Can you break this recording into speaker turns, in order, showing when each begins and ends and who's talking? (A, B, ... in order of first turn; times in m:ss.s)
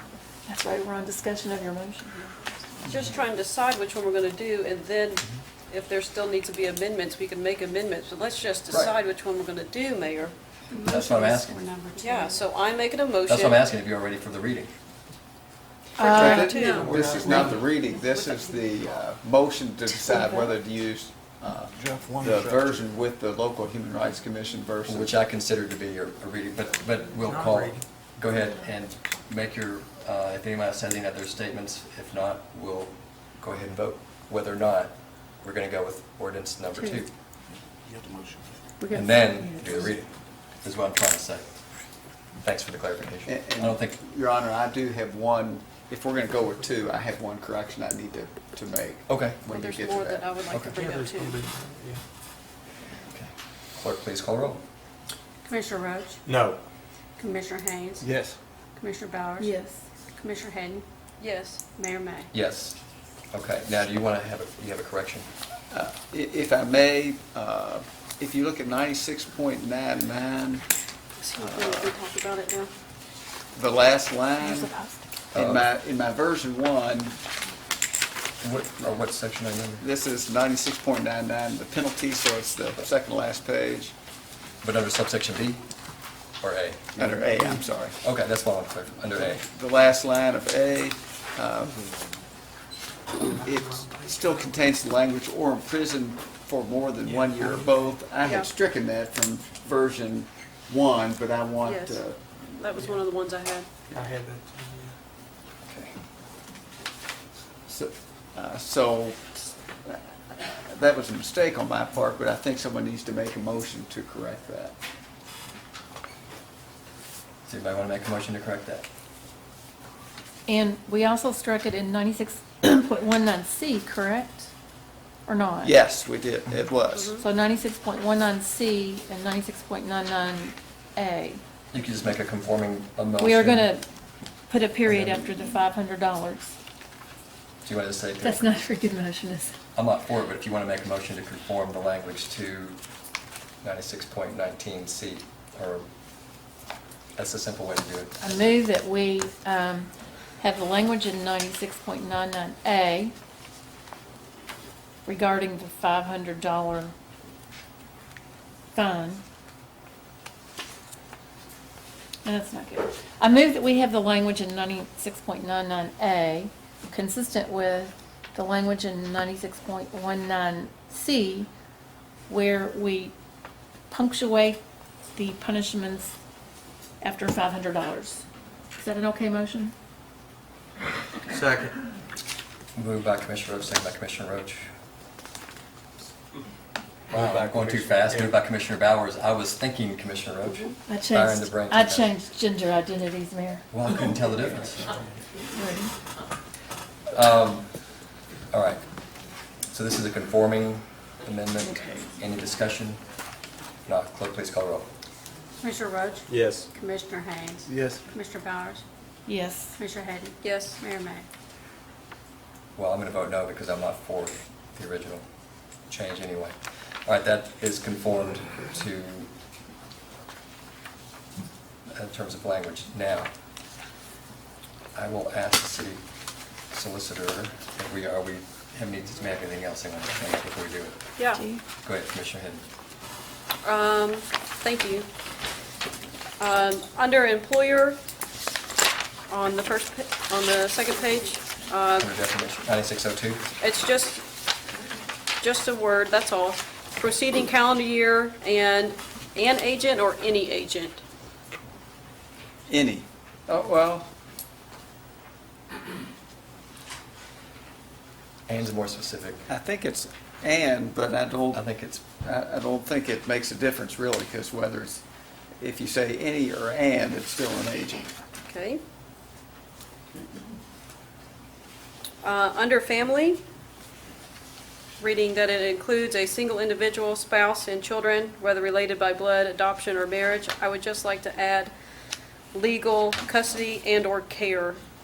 0:00.5-0:02.4 A
0:02.8-0:10.3 B
0:10.7-0:12.5 C
0:10.8-0:11.6 D
0:12.0-0:13.6 B
0:13.3-0:14.7 D
0:16.0-0:16.7 A
0:16.0-0:17.6 B
0:16.0-0:25.2 E
0:16.5-0:19.0 C
0:16.8-0:17.7 F
0:20.1-0:20.4 A
0:21.6-0:22.9 G
0:24.8-0:37.1 D
0:27.2-0:27.8 F
0:37.8-0:38.6 G
0:38.8-0:39.3 C
0:38.9-0:41.6 D
0:42.4-0:44.0 D
0:43.3-0:50.3 E
0:49.1-0:49.4 D
0:49.5-0:51.5 B
0:50.5-0:50.8 D
0:50.8-0:52.0 F
0:53.1-0:54.6 D
0:55.4-0:56.2 C
0:56.3-0:56.6 F
0:57.2-0:58.1 C
0:58.0-0:58.4 F
0:58.8-0:59.6 C
0:59.4-0:59.8 A
1:00.2-1:00.8 C
1:01.2-1:01.6 B
1:01.7-1:02.3 C
1:02.3-1:02.8 D
1:03.3-1:05.3 D
1:05.7-1:10.6 E
1:11.2-1:12.7 B
1:11.4-1:11.9 E
1:13.5-1:14.7 E
1:14.4-1:15.0 A
1:15.3-1:17.1 E
1:15.3-1:15.7 D
1:18.4-1:19.8 D
1:19.8-1:23.9 E
1:24.6-1:25.6 D
1:26.4-1:27.2 D
1:27.0-1:28.0 E
1:28.0-1:29.4 D
1:29.3-1:31.8 E
1:33.1-1:34.6 F
1:33.3-1:42.7 E
1:37.0-1:38.0 F
1:38.2-1:38.5 B
1:41.6-1:42.0 B
1:42.6-1:43.7 B
1:43.9-1:45.0 F
1:45.6-1:46.0 D
1:47.7-1:54.7 E
1:57.4-1:58.8 D
2:00.5-2:04.5 A
2:05.2-2:05.7 A
2:05.6-2:07.2 E
2:06.9-2:07.2 B
2:07.2-2:11.4 A
2:11.7-2:13.7 D
2:13.2-2:13.8 A
2:14.5-2:16.5 A
2:14.9-2:15.3 D
2:17.6-2:18.5 D
2:18.2-2:19.5 A
2:19.8-2:22.8 D
2:23.6-2:25.8 D
2:27.2-2:28.2 D
2:28.2-2:33.1 A
2:35.0-2:36.9 A
2:38.7-2:39.2 A
2:42.2-2:51.5 A
2:52.3-2:53.1 A
2:53.9-2:54.6 A
2:55.1-2:56.1 A
2:57.0-2:58.2 A
2:58.8-2:59.7 A
3:01.3-3:01.8 F
3:02.8-3:04.7 D
3:07.1-3:08.3 F
3:07.1-3:12.1 D
3:10.4-3:10.8 B
3:10.9-3:13.6 A
3:13.7-3:14.9 D
3:15.5-3:15.9 A
3:17.1-3:17.7 D
3:18.5-3:18.8 D
3:19.7-3:23.0 D
3:21.7-3:22.1 A
3:23.8-3:24.9 D
3:25.6-3:28.8 C
3:26.3-3:26.7 F
3:27.7-3:28.0 F
3:29.2-3:29.8 A
3:29.8-3:31.2 C
3:30.4-3:30.8 B
3:32.8-3:35.2 D
3:35.9-3:39.3 D
3:41.9-3:43.3 D
3:44.9-3:46.0 D
3:46.7-3:51.0 D
3:51.3-3:51.6 A
3:51.8-3:52.6 D
3:53.6-3:55.1 B
3:56.4-3:58.0 B
3:59.3-4:02.1 B
4:02.0-4:03.4 D
4:03.6-4:04.2 B
4:05.4-4:11.0 B
4:12.7-4:14.1 E
4:18.5-4:19.5 D
4:19.5-4:21.6 E
4:21.5-4:22.0 D
4:22.2-4:25.0 E
4:25.6-4:28.1 E
4:28.5-4:28.8 B
4:32.2-4:33.4 B
4:35.0-4:41.7 B
4:42.5-4:44.8 B